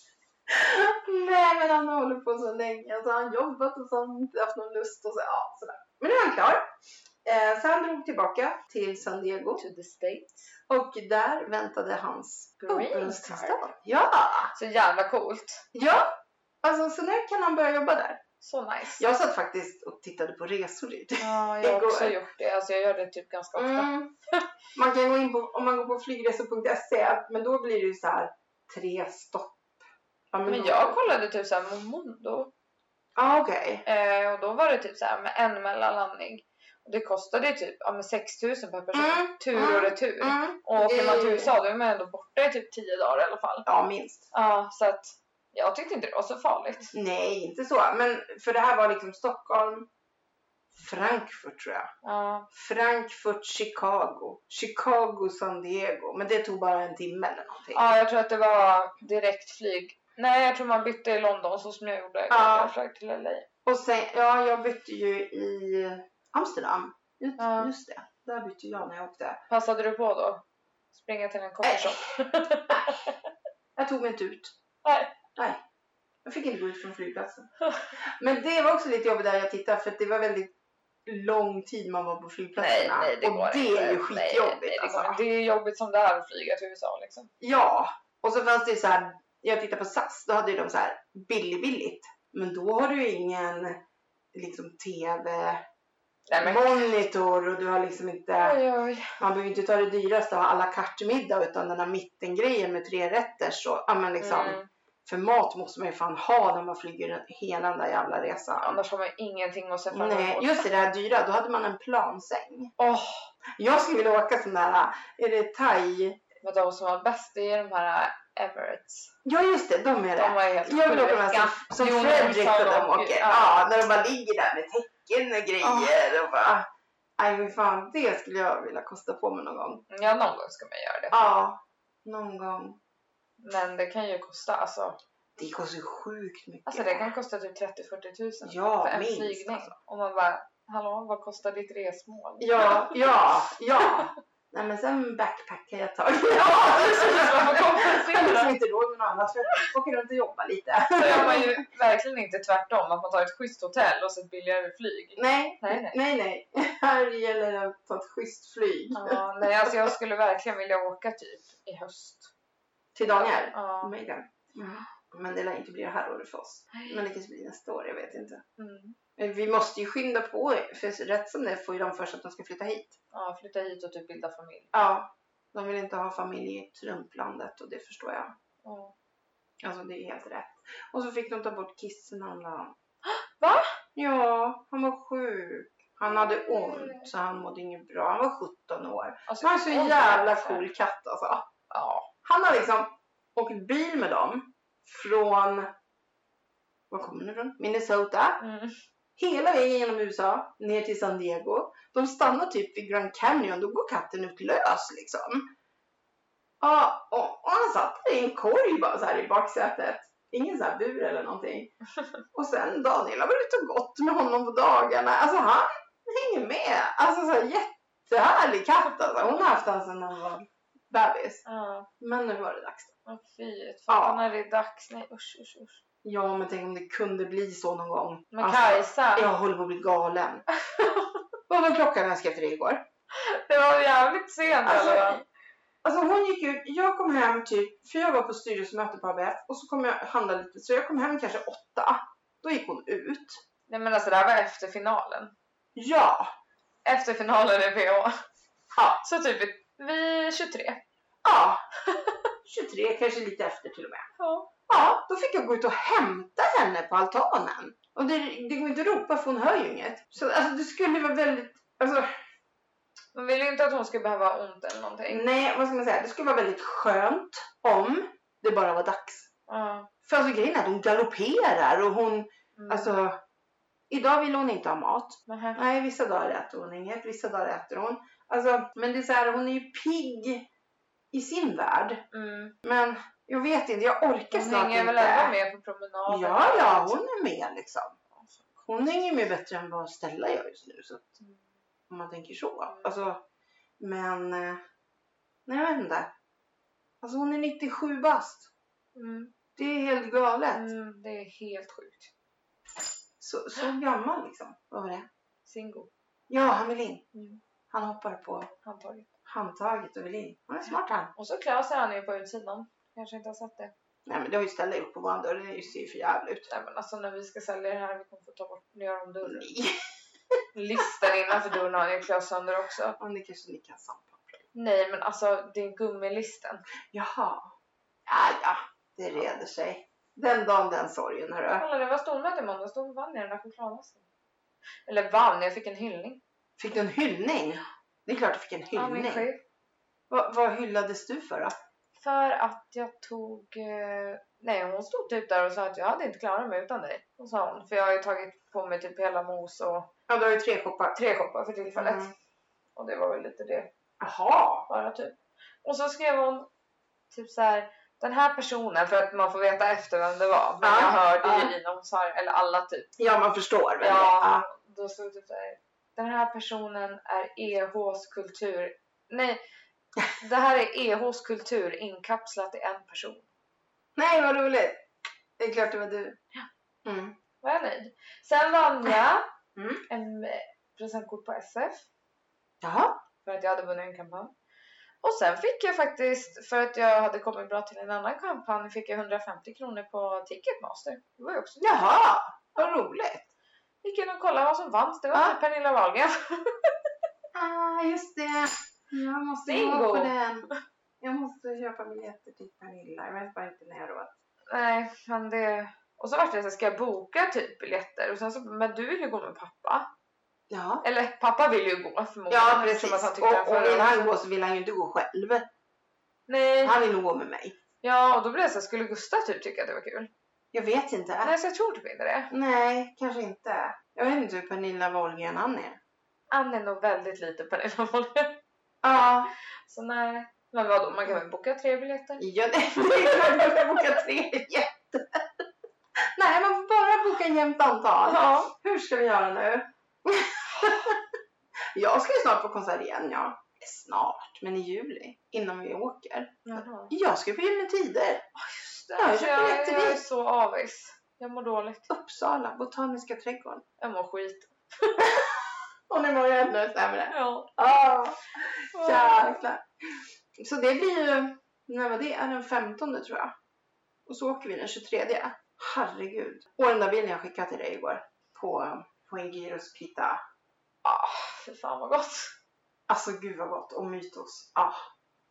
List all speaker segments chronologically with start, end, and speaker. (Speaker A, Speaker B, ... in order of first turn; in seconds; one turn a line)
Speaker A: 0.5-6.7
Speaker A: 7.2-9.6
Speaker B: 9.6-10.5
Speaker A: 10.7-14.5
Speaker B: 12.6-13.6
Speaker B: 14.6-15.6
Speaker A: 15.7-18.2
Speaker B: 18.4-19.1
Speaker A: 19.0-22.2
Speaker B: 21.2-24.4
Speaker A: 23.6-24.1
Speaker A: 24.7-29.7
Speaker A: 30.3-31.0
Speaker B: 30.5-32.5
Speaker A: 33.2-33.9
Speaker B: 33.9-43.7
Speaker A: 38.9-41.5
Speaker A: 43.7-44.3
Speaker B: 44.3-46.9
Speaker A: 46.9-49.9
Speaker A: 50.8-51.9
Speaker B: 52.0-52.5
Speaker A: 52.5-57.9
Speaker B: 57.7-63.5
Speaker A: 62.3-62.7
Speaker A: 63.6-69.4
Speaker B: 67.4-67.7
Speaker B: 69.5-73.2
Speaker A: 71.6-72.0
Speaker A: 73.8-74.5
Speaker B: 74.8-75.1
Speaker A: 75.4-75.6
Speaker A: 76.2-80.5
Speaker A: 81.1-85.2
Speaker B: 82.6-87.3
Speaker A: 87.4-93.8
Speaker A: 94.3-95.7
Speaker B: 96.3-96.9
Speaker A: 96.4-98.6
Speaker B: 98.4-99.1
Speaker A: 99.2-108.8
Speaker B: 104.2-104.7
Speaker B: 108.6-110.7
Speaker A: 109.9-112.7
Speaker B: 112.8-113.3
Speaker A: 113.6-116.2
Speaker B: 116.4-119.1
Speaker A: 119.2-126.7
Speaker B: 120.2-123.6
Speaker B: 125.6-126.0
Speaker A: 127.2-129.8
Speaker B: 129.9-131.3
Speaker A: 131.1-132.8
Speaker B: 133.4-135.0
Speaker A: 135.4-137.1
Speaker B: 136.7-143.1
Speaker A: 138.4-139.8
Speaker A: 142.4-151.6
Speaker B: 146.3-148.6
Speaker B: 151.0-156.0
Speaker A: 155.2-159.9
Speaker B: 158.9-162.3
Speaker A: 162.9-168.4
Speaker B: 163.1-163.9
Speaker B: 166.7-167.1
Speaker B: 168.6-169.0
Speaker A: 169.2-173.0
Speaker B: 173.1-174.7
Speaker A: 174.7-178.3
Speaker B: 178.6-178.9
Speaker A: 179.6-182.8
Speaker B: 183.1-183.7
Speaker A: 183.9-191.5
Speaker B: 186.1-187.1
Speaker B: 189.3-190.7
Speaker B: 191.7-192.1
Speaker A: 192.2-195.7
Speaker A: 196.9-198.4
Speaker B: 198.4-198.8
Speaker A: 199.2-205.5
Speaker A: 206.6-211.7
Speaker A: 212.3-221.4
Speaker B: 221.5-221.9
Speaker A: 222.0-222.9
Speaker B: 223.1-225.8
Speaker A: 223.9-224.3
Speaker A: 226.0-230.5
Speaker B: 228.3-229.3
Speaker B: 230.7-231.2
Speaker A: 231.5-232.9
Speaker B: 233.1-235.2
Speaker A: 234.7-235.2
Speaker A: 235.8-243.4
Speaker B: 243.7-245.3
Speaker A: 245.8-246.3
Speaker B: 246.8-248.1
Speaker A: 248.8-249.0
Speaker B: 249.0-250.8
Speaker A: 251.2-251.6
Speaker B: 251.9-252.2
Speaker A: 252.4-254.1
Speaker B: 254.2-254.5
Speaker A: 254.7-262.1
Speaker B: 263.1-265.2
Speaker A: 265.1-269.3
Speaker B: 269.5-269.9
Speaker A: 270.0-273.2
Speaker B: 272.6-272.9
Speaker A: 273.9-280.5
Speaker B: 275.3-275.6
Speaker A: 281.1-282.1
Speaker B: 282.1-282.6
Speaker A: 282.6-285.3
Speaker B: 284.3-287.0
Speaker A: 286.1-288.0
Speaker B: 288.2-288.7
Speaker A: 288.7-291.1
Speaker A: 291.9-293.2
Speaker B: 292.7-292.9
Speaker A: 293.8-294.6
Speaker A: 295.5-296.1
Speaker A: 297.0-298.5
Speaker B: 298.9-299.3
Speaker A: 299.6-300.7
Speaker B: 300.5-302.1
Speaker A: 303.2-305.1
Speaker B: 305.4-305.9
Speaker A: 306.3-307.1
Speaker B: 307.1-307.4
Speaker A: 307.7-308.5
Speaker B: 308.6-309.1
Speaker A: 309.3-311.1
Speaker B: 311.1-313.7
Speaker A: 314.1-316.5
Speaker B: 316.5-319.5
Speaker A: 319.2-319.8
Speaker B: 320.5-323.0
Speaker A: 323.0-324.5
Speaker B: 324.5-326.6
Speaker A: 326.9-327.6
Speaker A: 328.1-331.6
Speaker B: 331.6-334.1
Speaker B: 334.9-336.2
Speaker A: 336.6-339.3
Speaker B: 338.7-339.4
Speaker A: 340.1-341.6
Speaker B: 342.0-349.9
Speaker A: 350.1-351.0
Speaker B: 350.9-352.1
Speaker A: 351.7-352.1
Speaker B: 352.8-353.7
Speaker A: 354.0-354.7
Speaker B: 354.7-356.5
Speaker B: 357.1-362.9
Speaker A: 360.6-361.5
Speaker A: 363.0-364.5
Speaker B: 363.8-369.4
Speaker B: 370.2-373.3
Speaker A: 374.0-374.8
Speaker A: 375.4-376.2
Speaker A: 376.9-377.1
Speaker B: 377.4-379.3
Speaker A: 379.6-379.8
Speaker B: 379.9-381.9
Speaker A: 382.6-383.0
Speaker B: 383.2-384.3
Speaker B: 385.0-391.8
Speaker A: 391.6-393.3
Speaker B: 393.8-396.7
Speaker A: 397.3-400.5
Speaker B: 399.5-400.2
Speaker A: 401.0-404.1
Speaker B: 404.5-409.9
Speaker A: 410.5-410.9
Speaker B: 410.8-414.1
Speaker A: 412.3-415.5
Speaker B: 416.3-416.8
Speaker A: 416.6-417.6
Speaker B: 417.8-420.1
Speaker A: 420.5-421.3
Speaker B: 421.2-422.3
Speaker A: 422.3-425.8
Speaker B: 426.3-428.4
Speaker A: 428.8-429.3
Speaker B: 429.7-432.2
Speaker A: 432.2-435.2
Speaker B: 432.8-433.8
Speaker A: 436.2-441.0
Speaker B: 438.1-438.5
Speaker A: 441.8-448.2
Speaker B: 446.5-446.9
Speaker B: 448.4-451.9
Speaker A: 449.0-450.0
Speaker A: 451.9-453.6
Speaker B: 453.8-455.1
Speaker A: 455.0-455.3
Speaker A: 455.9-459.6
Speaker B: 457.1-457.5
Speaker B: 458.7-459.4
Speaker A: 460.4-463.4
Speaker A: 464.1-470.2
Speaker B: 470.8-472.3
Speaker A: 472.9-474.9